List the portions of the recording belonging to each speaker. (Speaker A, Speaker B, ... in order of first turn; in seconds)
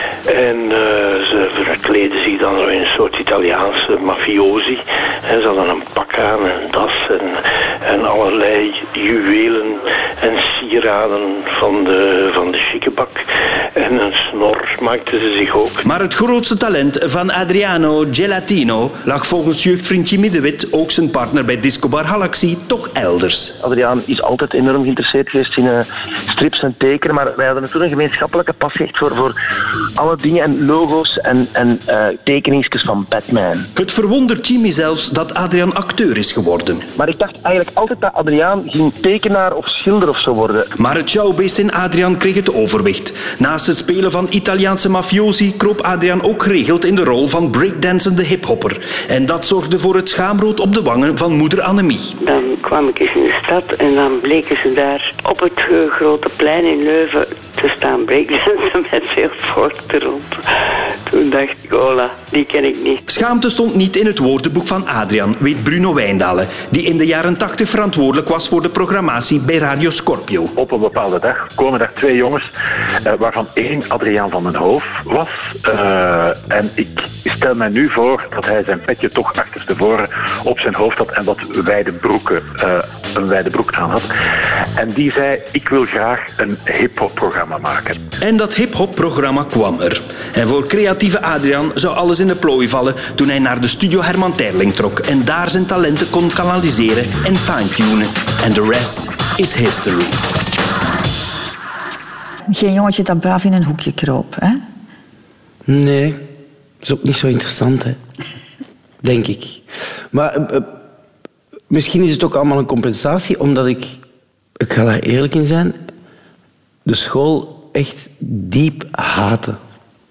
Speaker A: 0.3-15.8
Speaker B: 15.8-23.6, 33.8-36.9, 40.8-52.1, 63.1-70.5, 88.2-100.2
Speaker C: 23.6-29.3, 30.0-33.7, 36.9-40.7
Speaker D: 52.2-60.4, 61.0-63.0
Speaker E: 70.5-72.5, 73.1-84.1, 84.8-88.0
Speaker F: 102.5-104.6
Speaker G: 105.7-106.2, 106.8-108.0, 109.0-110.8, 111.7-114.0, 114.6-115.8, 116.8-119.6